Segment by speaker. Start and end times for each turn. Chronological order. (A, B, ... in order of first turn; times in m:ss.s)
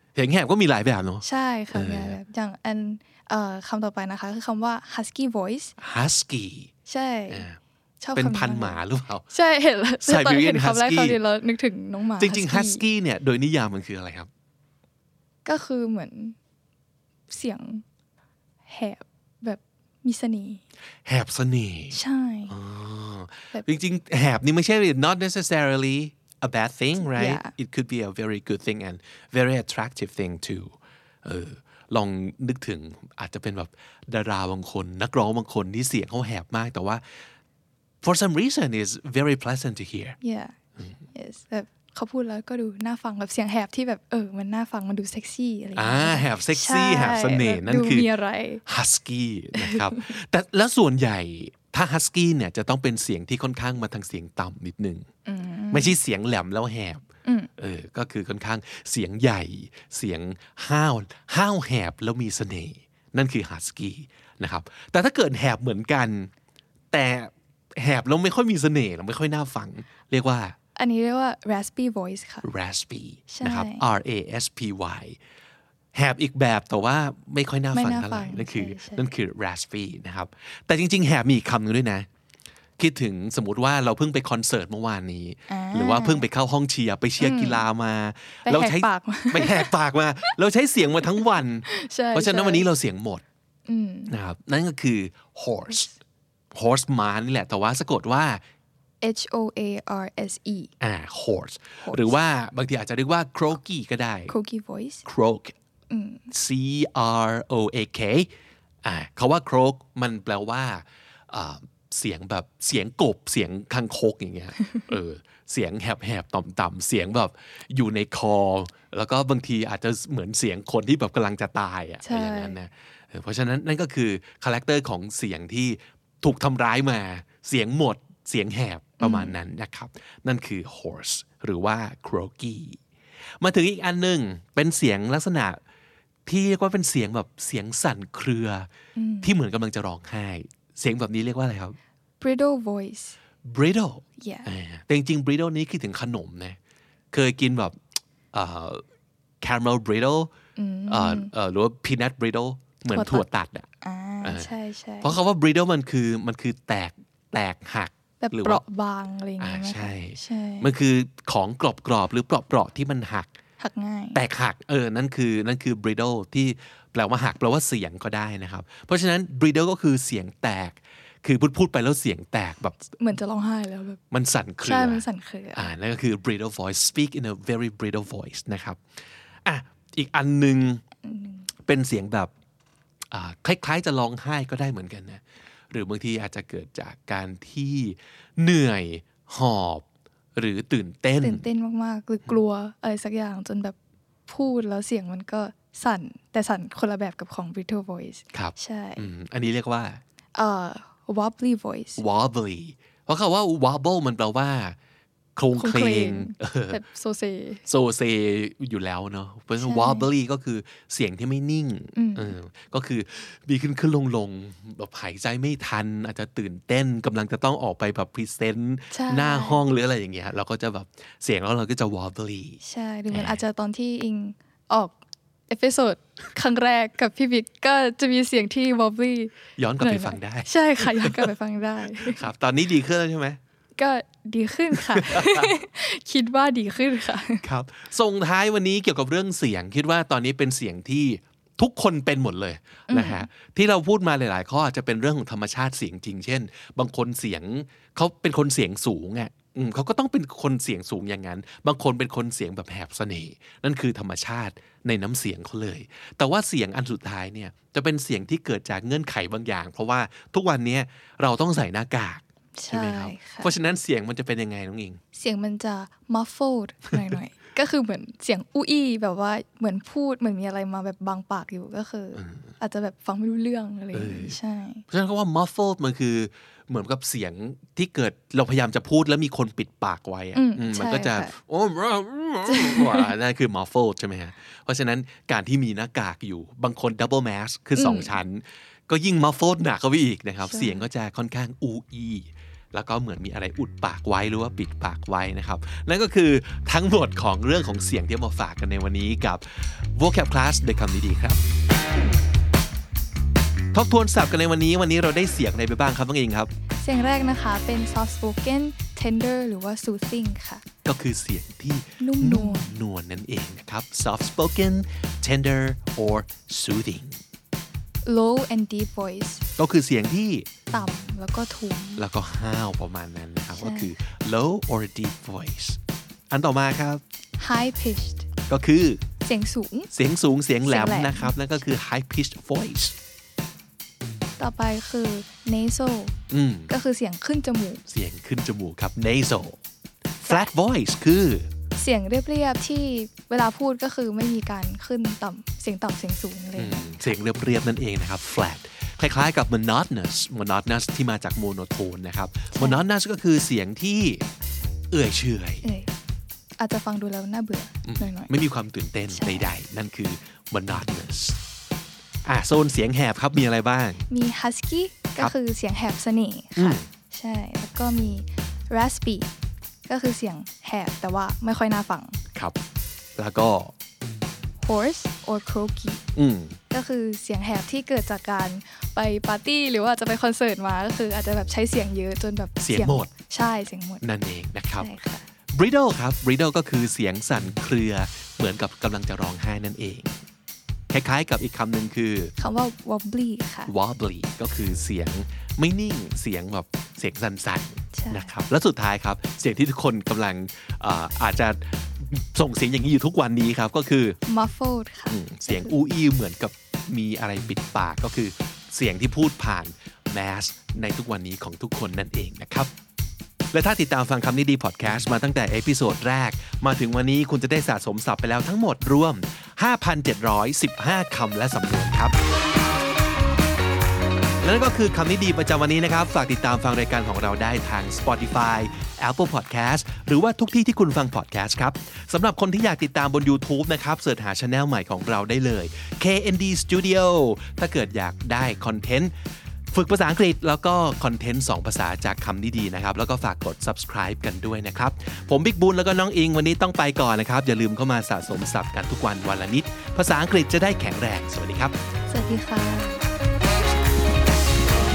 0:00.2-0:02.2 A
0:01.2-0:05.8 B
0:05.8-0:06.7 A
0:06.9-0:07.5 B
0:07.3-0:07.6 A
0:08.0-0:12.8 B
0:08.2-0:09.3 A
0:10.0-0:11.2 A
0:12.2-0:14.3 A
0:15.4-0:16.4 B
0:17.3-0:17.8 B
0:18.7-0:20.6 B
0:21.1-0:37.0 A
0:21.9-0:22.6 B
0:27.0-0:27.5 B
0:38.0-0:40.2 A
0:40.2-0:40.6 B
0:41.1-0:48.6 B
0:45.8-0:48.1 A
0:48.7-0:55.1 A
0:49.6-0:50.1 B
0:55.2-0:56.0 B
0:55.7-0:57.0 A
0:57.2-0:57.5 B
0:57.6-1:06.3 A
1:06.9-1:10.6 A
1:10.8-1:12.5 B
1:12.4-1:15.2 A
1:13.3-1:13.8 B
1:16.0-1:22.1 A
1:17.7-1:19.1 B
1:22.8-1:33.2 A
1:25.5-1:26.3 B
1:27.2-1:27.7 B
1:28.4-1:29.7 B
1:31.6-1:32.7 B
1:33.7-1:34.1 B
1:34.1-1:35.9 A
1:36.5-1:38.4 A
1:39.0-1:40.7 B
1:40.8-1:44.3 A
1:41.8-1:42.2 B
1:44.3-1:45.0 B
1:45.0-1:45.5 A
1:45.9-1:46.3 B
1:46.3-1:48.3 A
1:48.8-2:12.8 A
2:02.0-2:02.6 B
2:09.0-2:09.4 B
2:13.4-2:15.6 A
2:16.3-2:18.7 A
2:19.0-2:19.3 B
2:19.2-2:21.8 A
2:22.2-2:23.2 B
2:23.4-2:26.6 A
2:24.2-2:24.5 B
2:27.1-2:27.8 A
2:28.3-2:28.8 A
2:29.4-2:30.3 A
2:30.6-2:31.3 B
2:30.9-2:33.7 A
2:32.9-2:33.3 B
2:33.8-2:35.2 B
2:34.2-2:38.6 A
2:38.2-2:40.7 B
2:39.4-2:43.3 A
2:43.6-2:44.2 B
2:44.1-2:52.8 A
2:53.0-2:54.0 B
2:54.1-2:58.8 A
2:54.6-2:55.7 B
2:59.5-3:00.8 A
3:01.0-3:01.5 B
3:01.7-3:02.3 A
3:03.1-3:09.8 A
3:10.4-3:11.5 A
3:11.2-3:13.8 B
3:14.3-3:19.1 B
3:18.3-3:20.0 A
3:20.4-3:22.0 B
3:22.0-3:24.8 A
3:25.4-3:26.8 A
3:25.5-3:27.6 B
3:27.7-3:42.6 A
3:29.6-3:30.1 B
3:32.0-3:32.4 B
3:38.9-3:39.6 B
3:42.6-3:45.0 B
3:43.1-3:43.4 A
3:45.5-3:52.3 B
3:49.6-3:51.3 A
3:52.0-3:53.4 A
3:53.8-3:57.4 B
3:55.1-3:55.5 A
3:57.4-4:25.0 A
4:02.9-4:03.3 B
4:22.6-4:23.5 B
4:25.1-4:34.8 B
4:32.2-4:32.5 A
4:33.9-4:34.4 A
4:34.9-5:01.4 A
4:40.4-4:41.3 B
4:42.5-4:43.1 B
4:47.8-4:48.2 B
4:50.4-4:50.8 B
5:03.7-5:06.5 A
5:06.8-5:10.6 B
5:10.8-5:17.2 A
5:12.0-5:12.8 B
5:18.0-5:19.4 B
5:19.6-5:20.5 A
5:20.7-5:22.1 B
5:22.0-5:25.8 A
5:23.5-5:24.0 B
5:26.3-5:27.0 A
5:27.4-5:28.3 B
5:28.5-5:29.0 A
5:29.2-5:29.9 B
5:29.9-5:33.0 A
5:30.6-5:31.4 B
5:34.4-5:36.2 B
5:36.3-5:36.7 A
5:36.7-5:37.8 B
5:37.9-5:39.6 A
5:40.2-5:40.5 B
5:40.2-5:41.5 A
5:41.8-5:47.2 B
5:46.6-5:54.3 A
5:52.5-5:52.8 B
5:54.9-5:55.7 A
5:55.6-5:55.9 B
5:56.6-5:58.3 B
5:57.8-6:01.4 A
5:59.1-5:59.5 B
6:02.2-6:04.0 A
6:04.1-6:09.3 B
6:06.6-6:06.9 A
6:09.9-6:12.2 B
6:13.2-6:13.7 A
6:14.6-6:16.0 B
6:16.2-6:16.6 A
6:16.7-6:24.0 B
6:22.6-6:23.1 A
6:24.0-6:24.9 A
6:24.8-6:25.3 B
6:25.5-6:30.2 A
6:30.9-6:32.3 A
6:32.4-6:33.7 B
6:33.7-6:44.2 A
6:37.9-6:38.3 B
6:44.3-6:45.8 B
6:45.1-6:52.7 A
6:53.5-7:02.2 A
7:04.4-7:19.1 A
7:19.7-7:31.8 A
7:32.1-7:33.0 B